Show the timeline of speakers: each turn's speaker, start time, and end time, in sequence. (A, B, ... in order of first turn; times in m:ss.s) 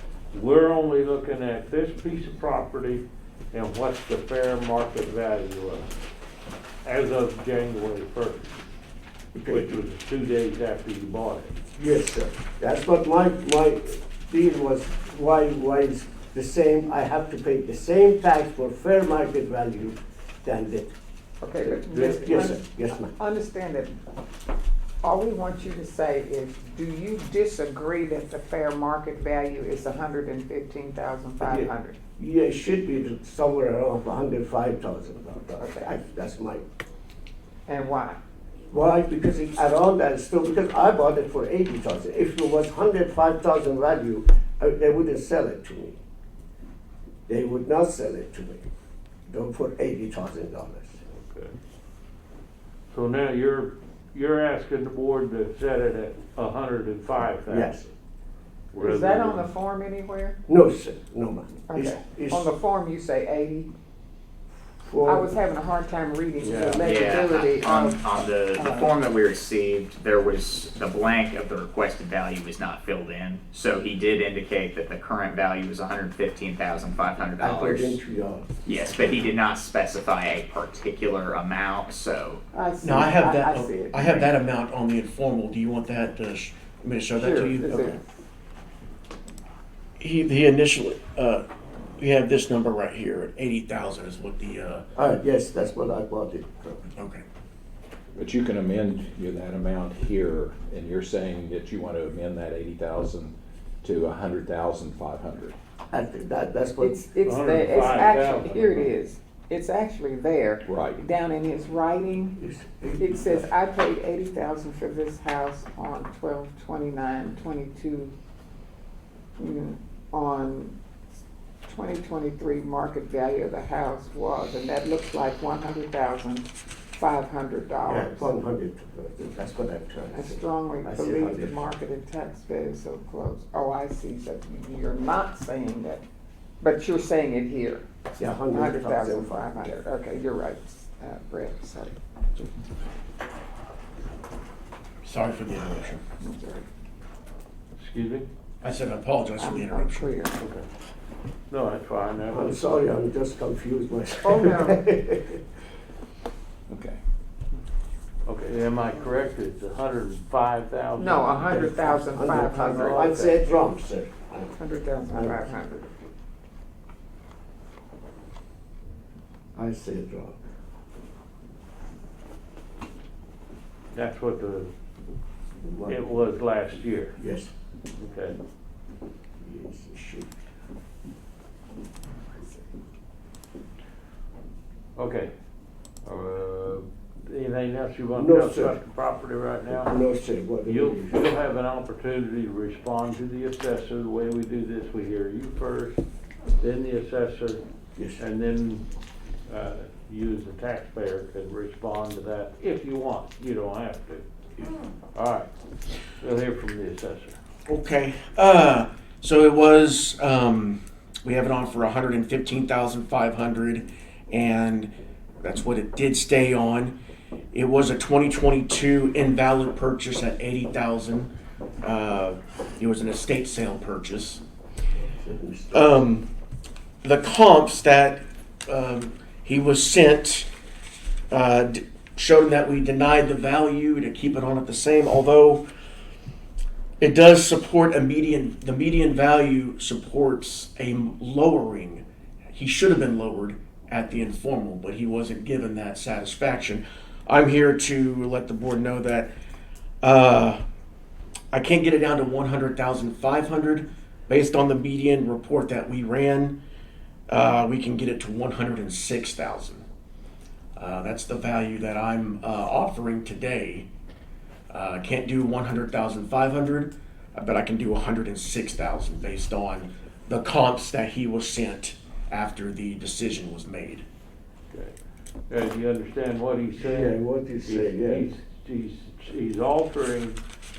0:00.3-0:05.9 A
0:06.8-0:08.5 A
0:09.3-0:09.8 B
0:09.5-0:11.5 A
0:11.8-0:20.9 B
0:21.4-0:23.9 C
0:21.6-0:23.1 B
0:25.0-0:32.0 C
0:31.4-0:36.6 B
0:35.6-0:35.9 C
0:37.7-0:38.2 C
0:38.7-0:46.0 B
0:47.3-0:48.6 B
0:49.3-0:51.0 B
0:51.1-0:51.5 A
0:52.9-0:57.9 A
0:57.5-0:57.8 B
0:58.7-0:59.5 A
0:58.8-1:00.4 C
1:00.5-1:02.5 B
1:01.7-1:03.7 C
1:04.8-1:05.4 B
1:05.0-1:08.9 C
1:06.4-1:06.8 A
1:06.8-1:18.0 D
1:17.4-1:19.2 B
1:18.6-1:22.4 D
1:22.5-1:24.2 C
1:22.8-1:28.0 E
1:27.1-1:28.2 C
1:30.0-1:31.4 E
1:32.0-1:34.8 E
1:35.0-1:36.9 B
1:36.9-1:37.2 E
1:38.2-1:45.6 F
1:45.9-1:47.1 B
1:46.8-1:52.4 C
1:47.2-1:48.9 A
1:50.6-1:51.0 F
1:52.4-1:53.5 B
1:53.0-1:58.1 C
1:59.4-2:00.8 C
2:01.7-2:08.3 C
2:07.8-2:11.6 B
2:10.1-2:16.0 C
2:16.6-2:22.0 C
2:18.2-2:19.7 B
2:25.0-2:26.0 E
2:26.2-2:26.7 C
2:27.8-2:28.3 A
2:28.6-2:30.1 E
2:29.4-2:30.4 C
2:30.4-2:30.7 A
2:31.5-2:32.6 A
2:32.3-2:35.4 B
2:34.2-2:34.8 C
2:36.7-2:37.0 F
2:38.2-2:41.7 A
2:41.0-2:43.0 C
2:41.4-2:44.6 B
2:42.5-2:43.3 A
2:44.6-2:45.9 C
2:45.1-2:45.6 B
2:49.5-2:50.4 B
2:53.9-2:54.7 A
2:55.6-2:56.0 B
2:55.9-2:57.2 A
2:57.2-2:57.5 B
2:58.0-2:58.4 A
2:59.4-3:00.5 B
3:02.3-3:02.6 C
3:05.0-3:05.3 A
3:06.0-3:09.9 A
3:08.2-3:08.8 B
3:09.7-3:11.2 B
3:10.7-3:16.0 A
3:16.6-3:17.6 A
3:18.2-3:18.8 A
3:19.5-3:24.3 A
3:25.1-3:25.5 A
3:26.2-3:27.4 A
3:27.7-3:36.9 E
3:37.5-3:41.3 E
3:41.8-3:44.4 E
3:44.9-3:45.8 B
3:45.7-3:46.3 E
3:47.0-3:50.5 E
3:51.3-3:55.6 E
3:57.0-4:09.3 E
4:10.0-4:10.6 E
4:11.5-4:16.6 E
4:17.3-4:19.8 E
4:20.8-4:23.9 E
4:24.7-4:34.0 E
4:34.7-4:35.0 A
4:35.5-4:40.4 A
4:36.8-4:38.3 B